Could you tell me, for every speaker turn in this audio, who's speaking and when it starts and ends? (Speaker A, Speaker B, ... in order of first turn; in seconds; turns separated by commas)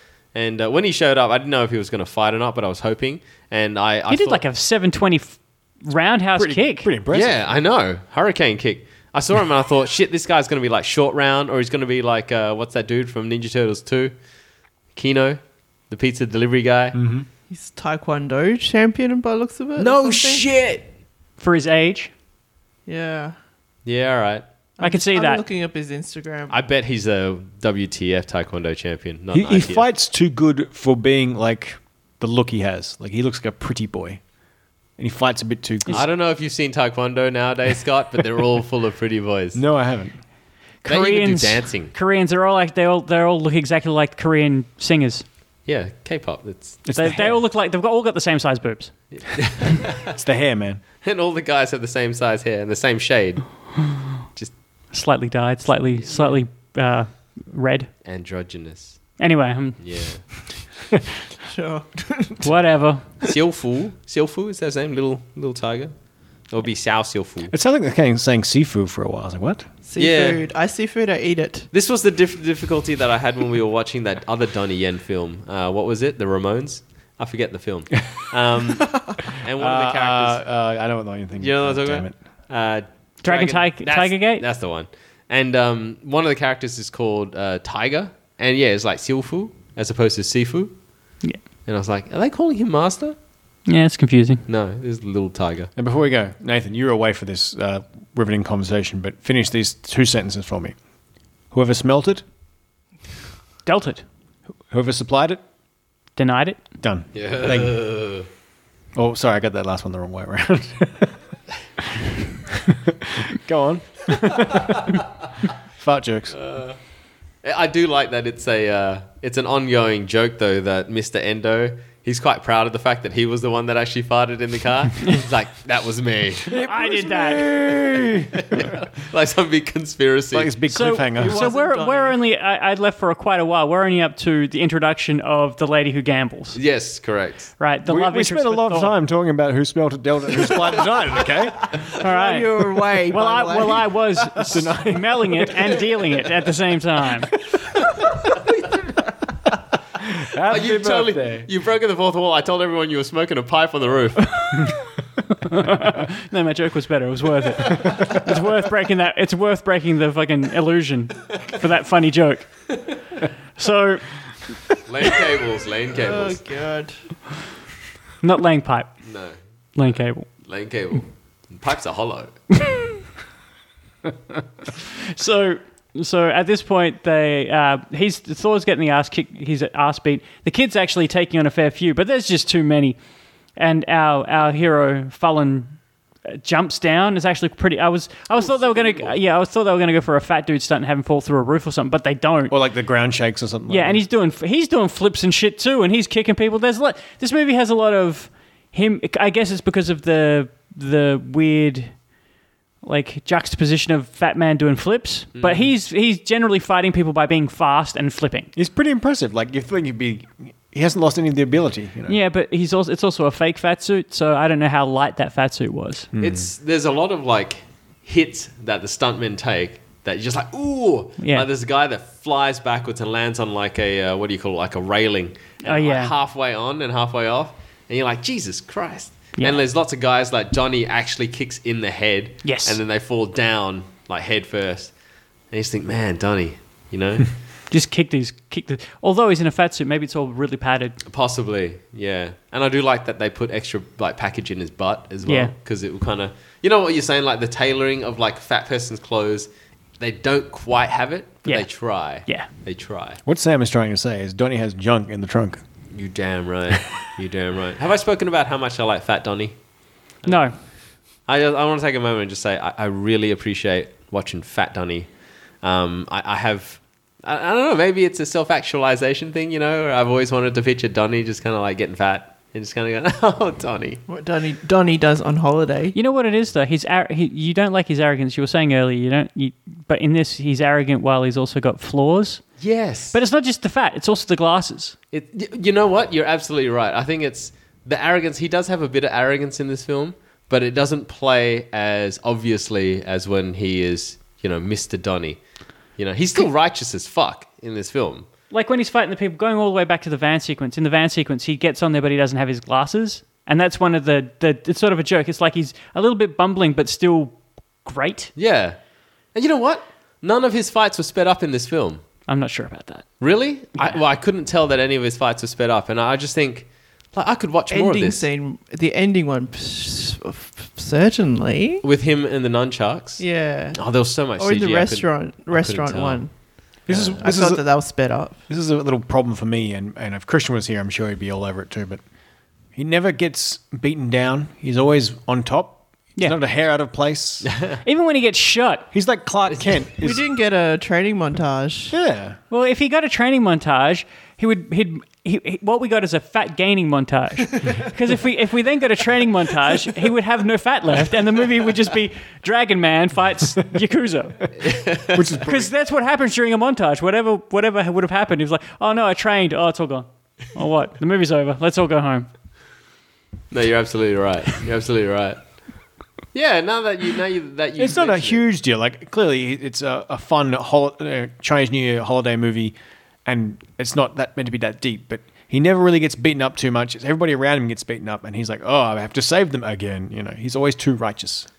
Speaker A: 0.3-4.4, Speaker B: 4.1-6.9, Speaker C: 6.4-7.4, Speaker A: 7.1-14.1, Speaker A: 14.9-17.0, Speaker C: 16.9-17.3, Speaker D: 17.5-20.4, Speaker A: 19.8-20.9, Speaker B: 21.4-22.1, Speaker D: 22.9-23.4, Speaker A: 23.9-24.4, Speaker D: 24.8-26.6, Speaker B: 24.8-25.4, Speaker A: 26.5-29.9, Speaker C: 29.3-34.2, Speaker C: 35.0-36.1, Speaker A: 35.9-39.6, Speaker C: 39.5-40.2, Speaker B: 40.8-45.2, Speaker A: 40.9-41.9, Speaker A: 45.7-46.9, Speaker C: 46.9-47.4, Speaker B: 47.0-48.9, Speaker A: 49.1-50.1, Speaker C: 50.1-50.8, Speaker A: 51.0-54.5, Speaker B: 54.9-57.9, Speaker A: 56.0-56.4, Speaker A: 58.0-59.2, Speaker B: 59.2-59.8, Speaker A: 59.8-60.3, Speaker D: 61.5-62.5, Speaker B: 62.4-63.1, Speaker A: 63.2-67.5, Speaker C: 67.5-69.7, Speaker D: 69.8-71.7, Speaker A: 70.0-70.4, Speaker A: 71.7-80.4, Speaker C: 79.6-82.1, Speaker A: 81.4-90.8, Speaker B: 83.2-84.4, Speaker A: 91.7-93.2, Speaker B: 93.7-94.4, Speaker A: 94.5-95.7, Speaker C: 95.8-100.8, Speaker C: 101.5-102.2, Speaker B: 103.7-104.0, Speaker C: 104.7-105.4, Speaker B: 106.2-106.7, Speaker C: 106.8-107.8, Speaker A: 107.1-108.3, Speaker C: 108.9-111.2, Speaker C: 112.7-114.9, Speaker C: 115.8-116.4, Speaker A: 116.4-116.8, Speaker A: 117.4-126.6, Speaker C: 126.5-128.8, Speaker B: 126.6-127.5, Speaker A: 128.4-130.5, Speaker C: 130.3-131.6, Speaker B: 130.7-136.6, Speaker D: 131.3-132.1, Speaker A: 136.5-137.5, Speaker B: 137.6-138.9, Speaker C: 137.9-141.8, Speaker B: 142.0-147.3, Speaker D: 142.0-143.9, Speaker C: 144.4-145.7, Speaker C: 150.0-151.5, Speaker A: 150.5-154.6, Speaker B: 155.5-162.8, Speaker B: 163.6-164.4, Speaker A: 164.8-166.4, Speaker D: 166.0-167.0, Speaker B: 168.2-169.0, Speaker A: 169.0-169.3, Speaker B: 169.8-170.3, Speaker A: 169.9-172.4, Speaker B: 175.1-183.0, Speaker B: 183.6-192.5, Speaker A: 188.4-189.2, Speaker C: 192.5-194.1, Speaker B: 193.7-202.1, Speaker B: 202.8-208.5, Speaker A: 205.3-205.7, Speaker C: 208.6-212.2, Speaker B: 212.1-216.1, Speaker C: 216.1-216.5, Speaker A: 216.2-234.9, Speaker B: 221.2-221.5, Speaker B: 225.6-226.1, Speaker B: 232.4-232.8, Speaker A: 235.5-237.3, Speaker B: 237.7-241.0, Speaker A: 241.1-253.2, Speaker B: 245.2-245.5, Speaker B: 251.5-252.5, Speaker C: 253.2-255.6, Speaker A: 255.9-259.6, Speaker B: 260.3-260.6, Speaker A: 261.3-265.1, Speaker A: 265.6-274.0, Speaker D: 274.1-276.0, Speaker B: 275.9-282.4, Speaker A: 282.6-283.2, Speaker B: 283.1-285.0, Speaker A: 285.1-295.4, Speaker A: 296.0-298.3, Speaker B: 298.5-308.3, Speaker A: 308.4-308.8, Speaker A: 309.3-312.0, Speaker B: 312.3-313.2, Speaker A: 313.2-318.3, Speaker D: 317.7-321.8, Speaker A: 321.8-326.3, Speaker D: 323.2-323.8, Speaker D: 324.4-328.4, Speaker A: 326.8-327.2, Speaker C: 326.9-332.0, Speaker C: 332.7-337.5, Speaker A: 337.4-337.8, Speaker B: 337.8-338.9, Speaker C: 338.9-340.2, Speaker A: 339.5-339.8, Speaker D: 340.0-342.0, Speaker C: 341.9-342.4, Speaker B: 342.5-354.5, Speaker A: 354.6-355.2, Speaker C: 355.1-355.7, Speaker B: 355.4-362.3, Speaker A: 363.5-365.4, Speaker A: 366.3-368.4, Speaker C: 367.8-381.5